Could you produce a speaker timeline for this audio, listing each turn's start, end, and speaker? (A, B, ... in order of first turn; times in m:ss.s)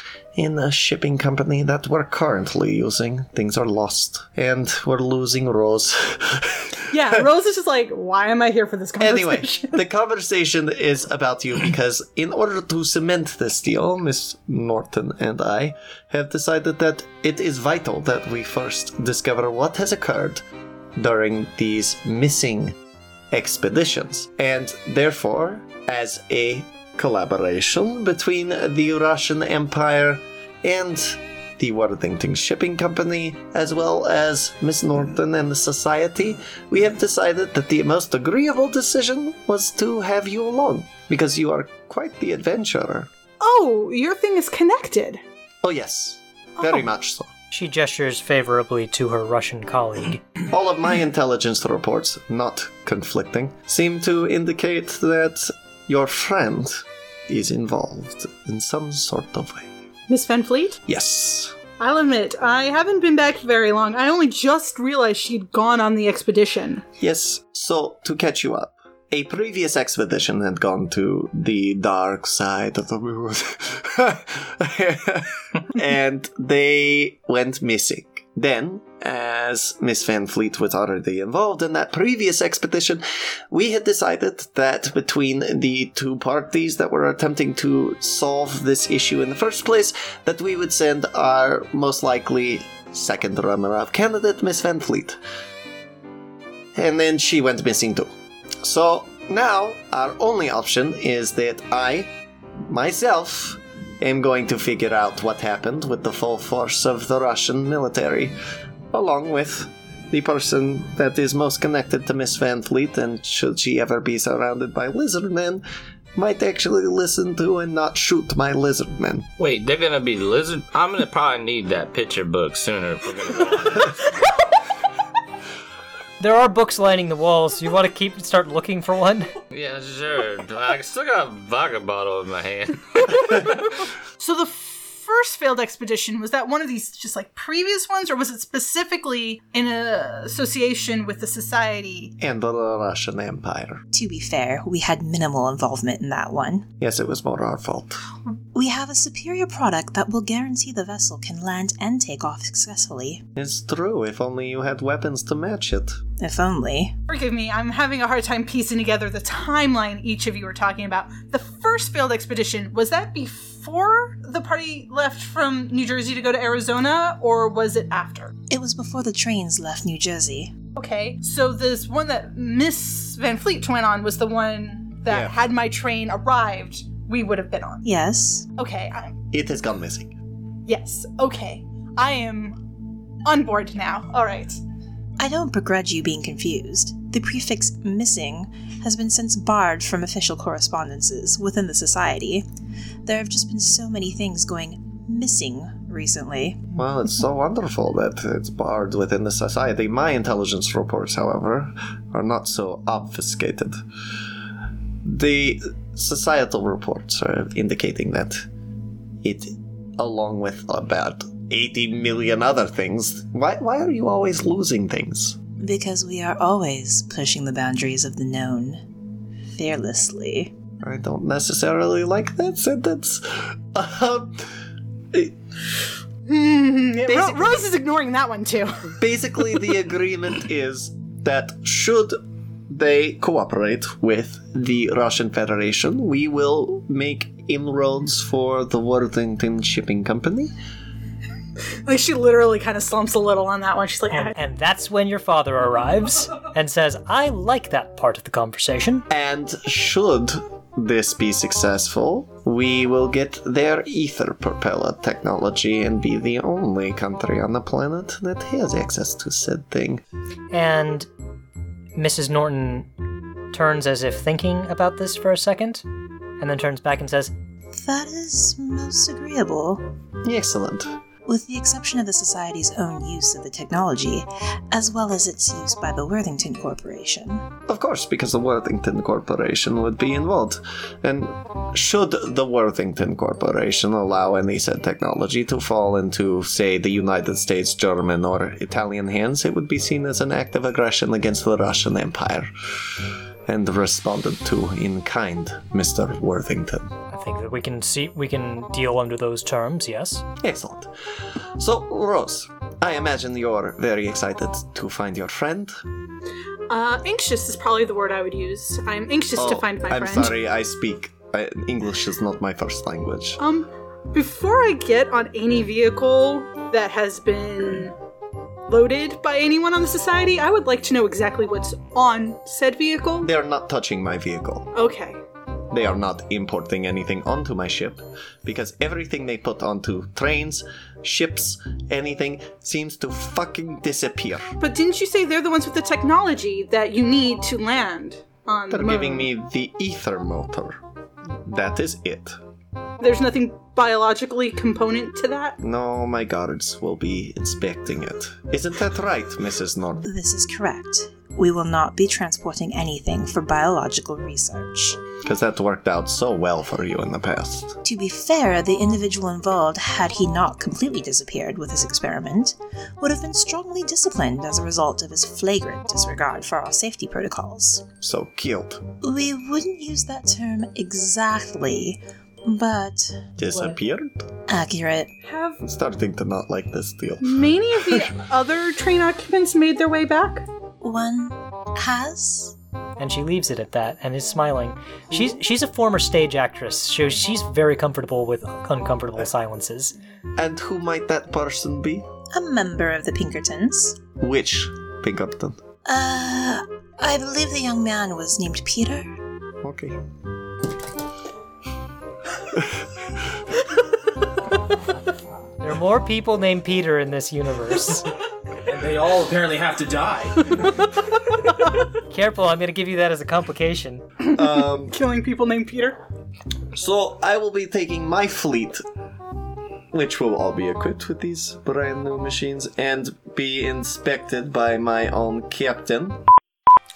0:00.4-0:07.2 A
0:06.9-0:09.8 B
0:09.0-0:20.4 A
0:21.0-0:22.8 A
0:23.3-0:43.1 A
0:43.4-0:45.2 B
0:45.6-0:47.3 A
0:46.6-0:46.9 B
0:47.5-0:50.2 C
0:50.5-0:59.7 A
1:00.1-1:00.8 B
1:00.8-1:01.6 A
1:01.8-1:06.8 B
1:07.0-1:35.2 A
1:36.7-1:42.1 A
1:42.6-1:48.4 A
1:48.9-1:55.6 A
1:56.2-1:59.3 A
1:59.4-2:04.1 D
2:06.2-2:09.3 C
2:09.5-2:13.5 D
2:14.2-2:22.1 B
2:22.2-2:23.8 A
2:23.9-2:26.7 E
2:26.8-2:28.0 A
2:28.5-2:33.2 E
2:33.3-2:36.0 A
2:36.2-2:36.9 E
2:37.1-2:48.3 B
2:48.5-2:50.6 E
2:50.7-2:57.9 B
2:55.1-2:55.4 A
2:57.8-2:58.5 E
2:58.5-2:59.2 B
2:59.3-3:00.1 A
3:00.6-3:04.6 B
3:05.2-3:12.4 E
3:13.0-3:16.6 E
3:16.7-3:23.8 A
3:25.0-3:28.5 A
3:29.2-3:35.4 A
3:35.6-3:38.9 E
3:39.5-3:40.5 E
3:40.8-3:44.5 A
3:46.3-3:49.0 B
3:48.9-4:00.5 A
4:01.8-4:04.4 B
4:04.1-4:09.0 C
4:09.1-4:20.0 A
4:20.5-4:21.1 C
4:22.0-4:22.9 C
4:23.5-4:25.8 C
4:26.4-4:27.3 C
4:27.7-4:29.9 E
4:30.2-4:31.0 A
4:31.2-4:37.5 E
4:37.7-4:56.9 A
4:57.1-5:00.2 C
5:00.4-5:00.9 A
5:01.6-5:05.8 A
5:06.7-5:10.3 B
5:09.4-5:13.4 A
5:13.4-5:17.9 B
5:18.7-5:23.3 B
5:23.2-5:24.7 A
5:24.7-5:25.2 B
5:25.7-5:34.5 A
5:34.6-5:39.3 B
5:38.7-5:42.4 A
5:43.0-5:45.6 B
5:45.6-5:50.1 A
5:50.0-5:55.0 E
5:55.2-5:57.8 A
5:57.8-6:07.9 E
6:08.0-6:08.8 A
6:09.0-6:13.3 E
6:13.4-6:14.3 A
6:14.5-6:15.1 E
6:15.2-6:15.6 B
6:15.6-6:18.1 A
6:17.2-6:20.4 B
6:20.8-6:22.5 E
6:23.0-6:29.9 C
6:30.4-6:32.1 A
6:32.3-6:34.0 E
6:34.2-6:35.6 A
6:35.8-6:39.1 E
6:39.6-6:40.0 A
6:42.5-6:42.8 A
6:45.6-6:48.1 C
6:48.6-6:50.8 F
6:52.1-6:54.0 C
6:54.2-6:56.0 B
6:54.3-6:55.0 A
6:56.7-6:58.8 A
6:59.9-7:06.2 A